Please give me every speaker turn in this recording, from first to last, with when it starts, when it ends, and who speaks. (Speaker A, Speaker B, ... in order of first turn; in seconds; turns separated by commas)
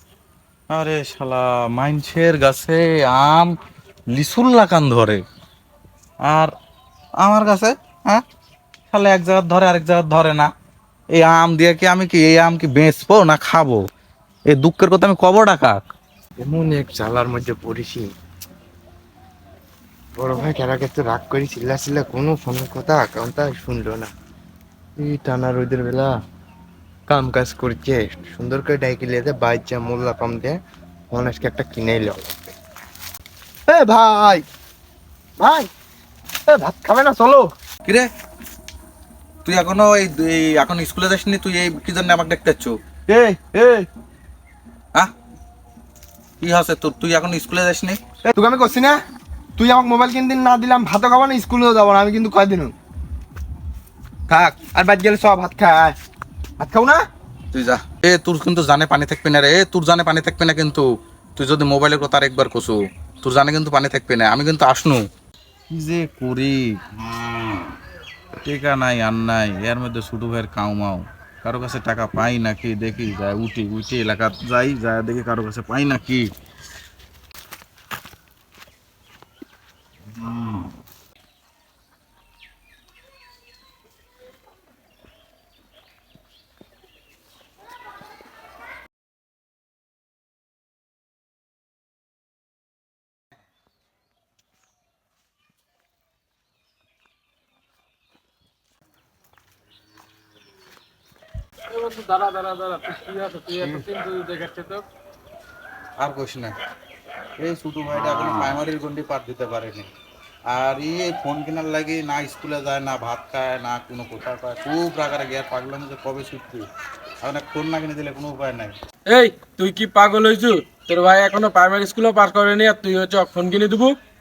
Speaker A: 0.7-3.5, Speaker A: 4.1-5.2, Speaker A: 6.2-6.5, Speaker A: 7.2-8.2, Speaker A: 8.9-10.5, Speaker A: 11.1-13.8, Speaker A: 14.5-15.9, Speaker B: 16.4-18.1, Speaker B: 20.1-24.1, Speaker B: 25.0-26.1, Speaker B: 27.1-30.6, Speaker B: 31.1-32.5, Speaker B: 33.7-34.4, Speaker B: 35.4-35.7, Speaker B: 36.5-37.5, Speaker A: 39.4-42.8, Speaker B: 43.1-43.9, Speaker A: 46.4-48.0, Speaker B: 48.2-49.0, Speaker B: 49.6-52.7, Speaker B: 54.5-56.0, Speaker B: 56.6-57.0, Speaker A: 57.5-65.0, Speaker A: 65.7-66.8, Speaker A: 68.4-76.3, Speaker A: 80.2-80.6, Speaker C: 101.7-104.8, Speaker A: 106.0-106.5, Speaker A: 107.4-109.9, Speaker A: 110.5-116.7, Speaker A: 117.2-118.7, Speaker C: 119.1-124.0